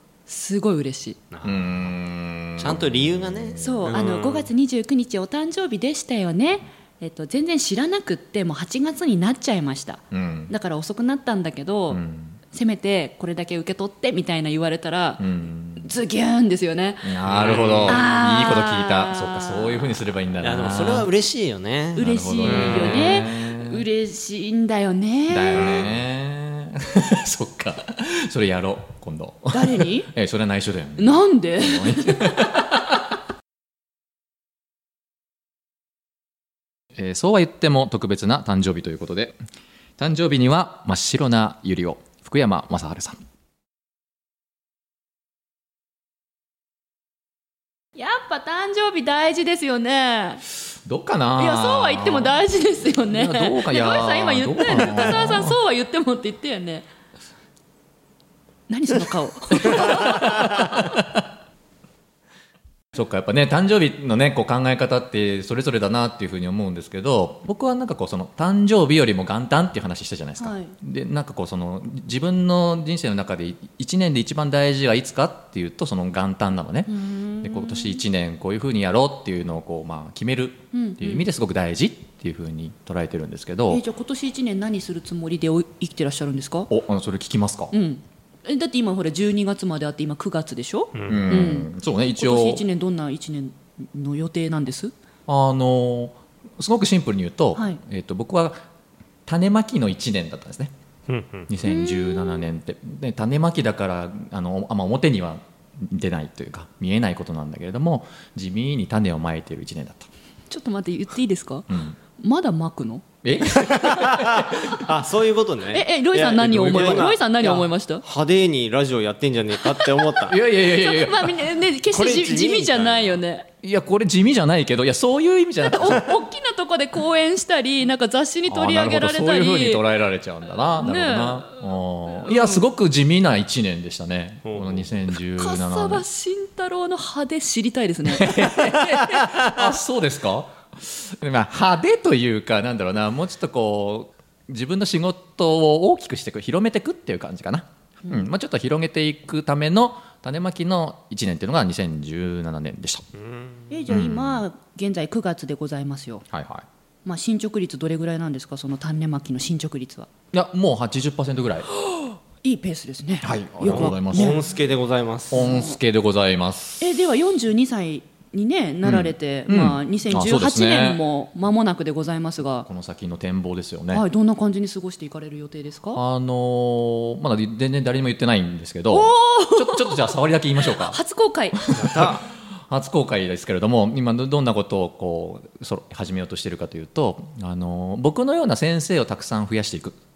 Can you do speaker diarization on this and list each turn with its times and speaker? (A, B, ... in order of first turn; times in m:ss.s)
0:00.3-0:01.2 A
0:01.3-0:01.9 B
0:01.4-0:03.9 C
0:02.6-0:04.5 B
0:03.6-0:15.2 A
0:10.1-0:10.5 C
0:11.9-0:12.4 C
0:15.2-0:15.9 C
0:15.8-0:17.2 A
0:17.0-0:21.1 C
0:17.3-0:18.0 B
0:17.9-0:20.0 A
0:20.4-0:23.2 B
0:22.0-0:23.8 C
0:22.0-0:25.8 A
0:25.3-0:32.9 C
0:25.6-0:25.9 B
0:29.5-0:30.1 A
0:31.0-0:32.6 A
0:37.0-0:39.4 C
0:40.0-0:43.2 C
0:48.0-0:50.4 A
0:50.8-0:52.4 C
0:51.4-0:56.8 A
0:53.1-0:55.6 C
0:58.7-1:00.9 A
0:59.6-1:01.2 C
1:02.9-1:23.8 C
1:10.4-1:10.7 A
1:16.9-1:18.0 A
1:20.7-1:21.2 A
1:23.7-1:26.7 A
1:26.7-1:27.7 C
1:27.7-1:34.9 A
1:30.9-1:31.5 B
1:31.1-1:32.6 C
1:35.3-1:38.6 C
1:39.3-1:40.7 C
1:41.1-1:41.5 B
1:41.5-1:50.1 C
1:41.6-1:42.5 A
1:50.5-1:53.0 A
1:51.7-1:52.0 C
1:53.2-1:54.8 C
1:53.6-2:00.4 B
1:55.7-1:58.0 A
1:56.5-1:57.2 C
1:59.8-2:03.5 A
2:00.3-2:01.4 C
2:01.9-2:03.2 B
2:03.6-2:06.1 C
2:05.6-2:09.8 A
2:08.5-2:16.0 C
2:10.8-2:12.6 A
2:14.4-2:14.9 B
2:15.3-2:18.7 A
2:18.1-2:33.0 C
2:33.2-2:33.7 B
2:33.7-2:36.2 A
2:33.9-2:34.4 C
2:36.3-2:36.7 C
2:37.1-2:40.1 A
2:40.3-2:41.7 C
2:41.9-2:44.4 A
2:43.2-2:44.4 C
2:43.6-2:45.6 B
2:45.3-2:46.9 C
2:45.4-2:45.7 A
2:46.8-2:52.7 A
2:48.8-2:51.0 C
2:52.7-2:54.0 C
2:53.9-2:56.0 A
2:56.0-3:01.0 C
2:58.9-3:01.6 A
3:01.6-3:10.0 C
3:01.7-3:02.3 B